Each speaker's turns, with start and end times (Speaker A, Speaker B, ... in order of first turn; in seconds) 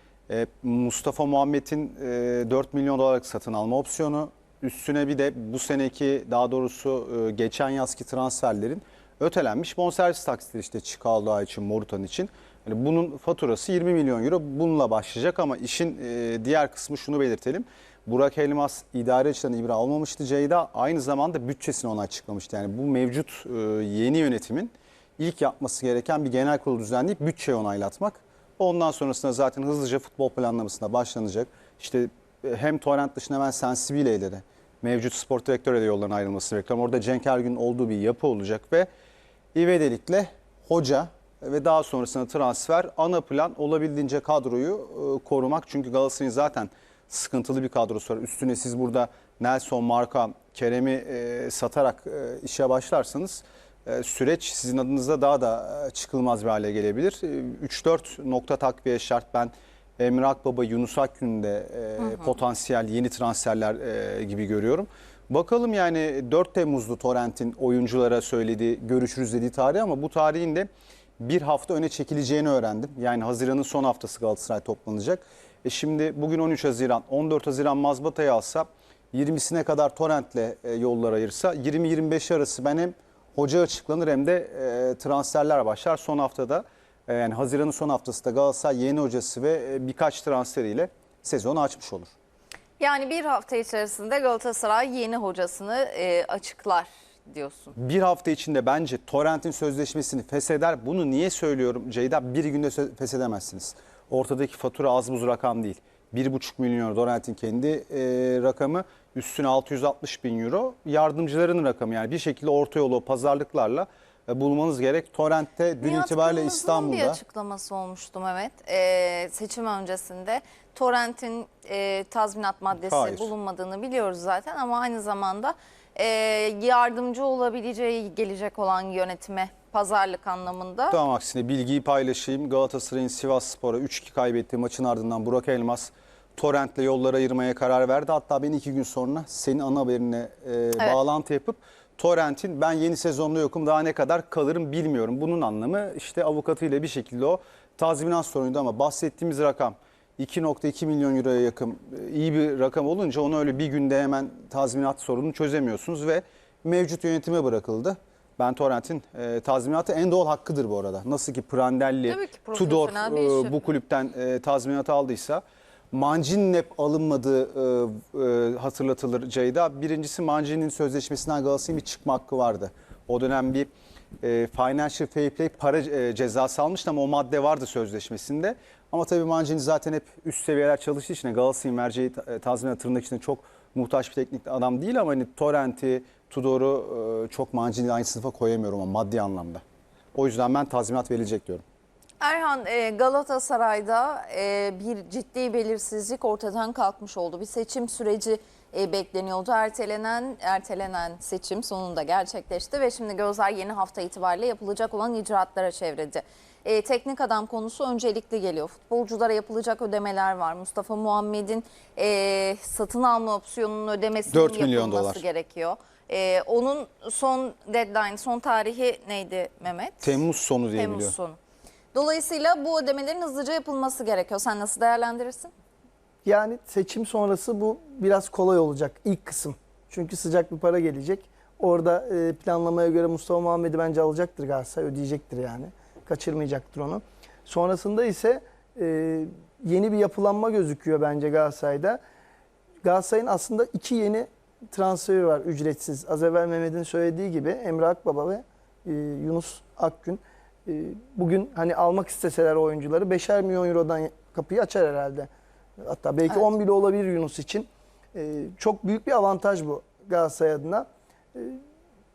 Speaker A: 0.3-38.9, 39.5-92.1, 97.8-117.2, 122.7-123.3, 130.9-173.7, 174.2-189.6, 190.1-191.6, 214.3-215.2, 220.0-221.1
Speaker B: 92.8-97.7, 115.8-131.0, 162.1-163.5, 192.2-221.4, 221.9-225.5
Speaker C: 226.2-242.0, 242.8-261.6